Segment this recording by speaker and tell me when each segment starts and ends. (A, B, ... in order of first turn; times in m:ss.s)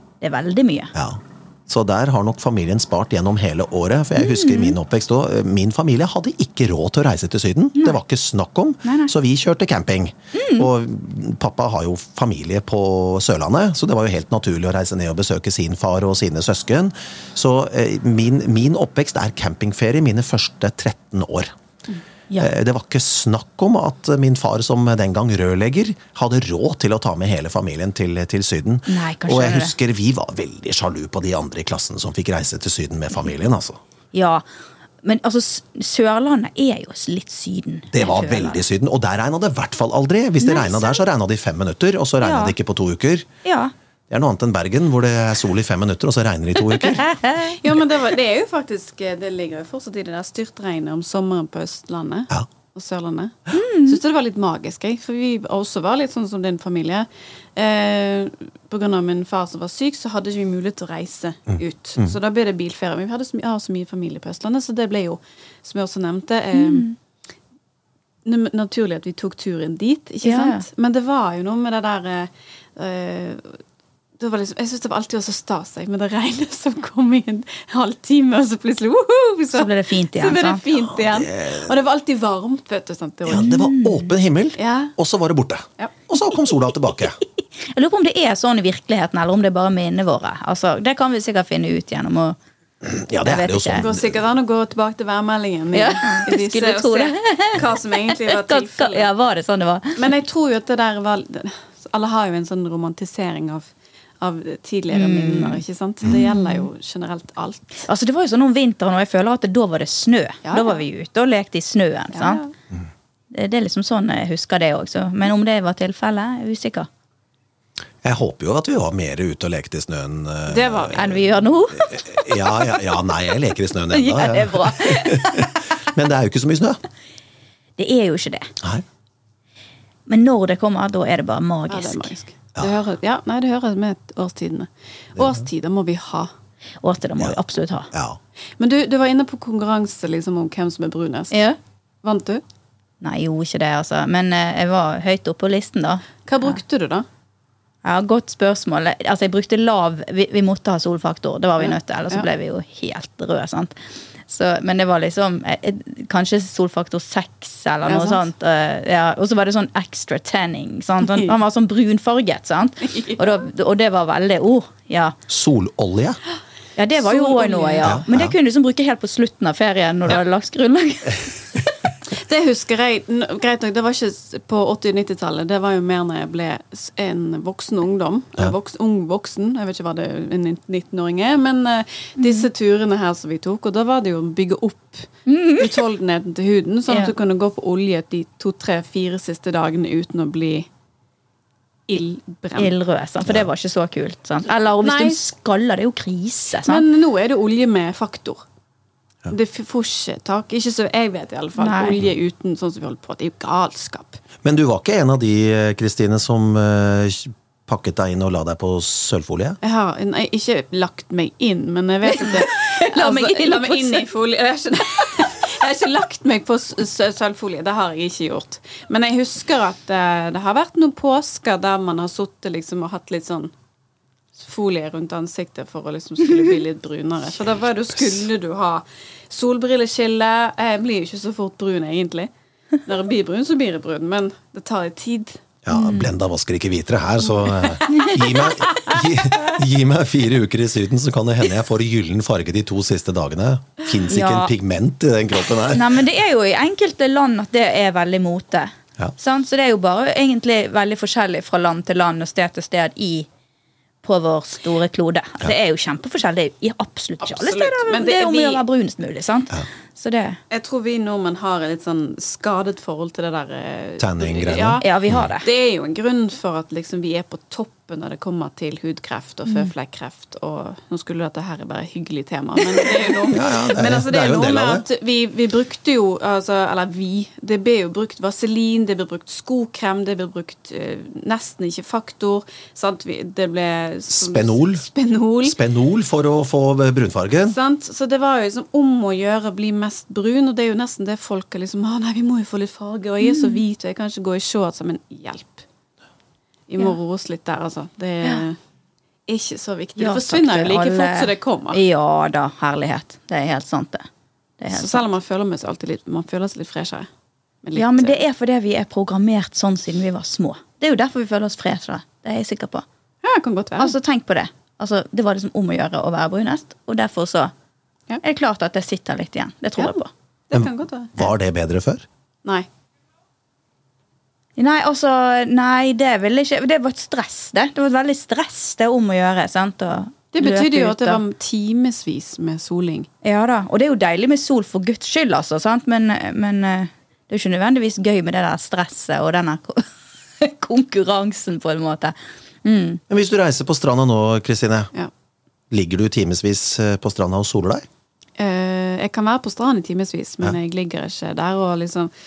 0:00.2-0:00.9 A
0:00.9-0:21.5 B
0:04.2-0:04.8 A
0:08.8-0:09.1 A
0:10.3-0:10.7 A
0:22.4-0:33.8 B
0:28.9-0:29.8 A
0:34.1-0:34.4 A
0:35.0-0:38.6 A
0:37.9-0:43.3 B
0:40.4-0:41.0 A
0:42.2-0:42.6 A
0:43.4-0:43.7 A
0:44.1-0:47.1 B
0:46.8-0:47.6 A
0:47.5-1:06.9 C
0:53.5-0:54.0 A
1:06.5-1:07.0 A
1:08.2-1:13.6 C
1:10.2-1:10.6 A
1:14.2-1:23.5 C
1:19.5-1:20.6 A
1:20.8-1:21.7 B
1:23.3-1:27.2 B
1:23.3-1:24.1 A
1:24.6-1:24.9 C
1:27.7-1:32.4 A
1:32.8-1:34.2 B
1:33.2-1:33.9 A
1:33.8-1:39.1 C
1:35.7-1:40.1 A
1:40.0-1:47.9 C
1:44.9-1:46.7 A
1:47.9-1:52.4 A
1:50.4-1:50.8 C
1:52.1-1:52.5 C
1:53.3-1:56.9 A
1:58.0-2:06.8 B
2:00.5-2:01.1 C
2:01.0-2:02.9 A
2:03.9-2:05.5 A
2:07.8-2:08.5 A
2:10.1-2:12.1 A
2:11.7-2:16.3 C
2:16.8-2:17.9 A
2:17.9-2:18.2 B
2:18.6-2:21.3 C
2:21.3-2:21.6 A
2:22.0-2:22.4 C
2:23.0-2:26.6 A
2:26.3-2:27.1 C
2:27.8-2:33.8 A
2:31.6-2:32.3 C
2:34.3-2:45.2 A
2:37.9-2:38.2 C
2:45.3-2:46.2 B
2:46.8-2:51.6 A
2:47.0-2:48.0 C
2:47.8-2:48.3 B
2:52.1-3:10.7 C
3:02.2-3:02.5 A
3:05.3-3:05.8 A
3:06.9-3:07.1 A
3:11.9-3:12.8 C
3:12.6-3:16.9 A
3:14.8-3:15.2 C
3:16.6-3:18.4 C
3:19.3-3:24.2 C
3:21.6-3:22.0 A
3:24.4-3:29.6 B
3:29.6-3:43.5 C
3:32.0-3:34.1 A
3:44.4-3:52.3 C
3:52.8-3:55.4 C
3:55.6-4:06.0 B
3:55.7-3:56.2 A
3:57.4-3:59.4 C
3:57.9-3:58.2 A
4:04.1-4:04.5 A
4:05.7-4:13.3 A
4:14.0-4:20.4 A
4:17.2-4:18.6 C
4:20.5-4:45.6 C
4:24.0-4:25.2 B
4:24.8-4:25.5 A
4:33.3-4:34.8 B
4:44.1-4:44.8 B
4:45.4-4:47.6 B
4:47.4-4:55.6 C
4:53.2-4:53.6 A
4:56.7-4:58.6 C
4:59.3-5:01.8 C
5:00.0-5:04.1 A
5:04.6-5:05.1 A
5:04.7-5:07.1 C
5:07.6-5:08.2 C
5:07.8-5:12.8 A
5:13.2-5:13.9 C
5:13.8-5:17.5 A
5:18.2-5:20.1 A
5:20.5-5:21.1 C
5:21.2-5:22.1 B
5:24.6-5:31.2 A
5:30.3-5:33.1 C
5:33.2-5:39.9 A
5:40.4-5:43.0 A
5:43.1-5:44.9 B
5:45.7-5:47.8 B
5:48.4-5:52.1 C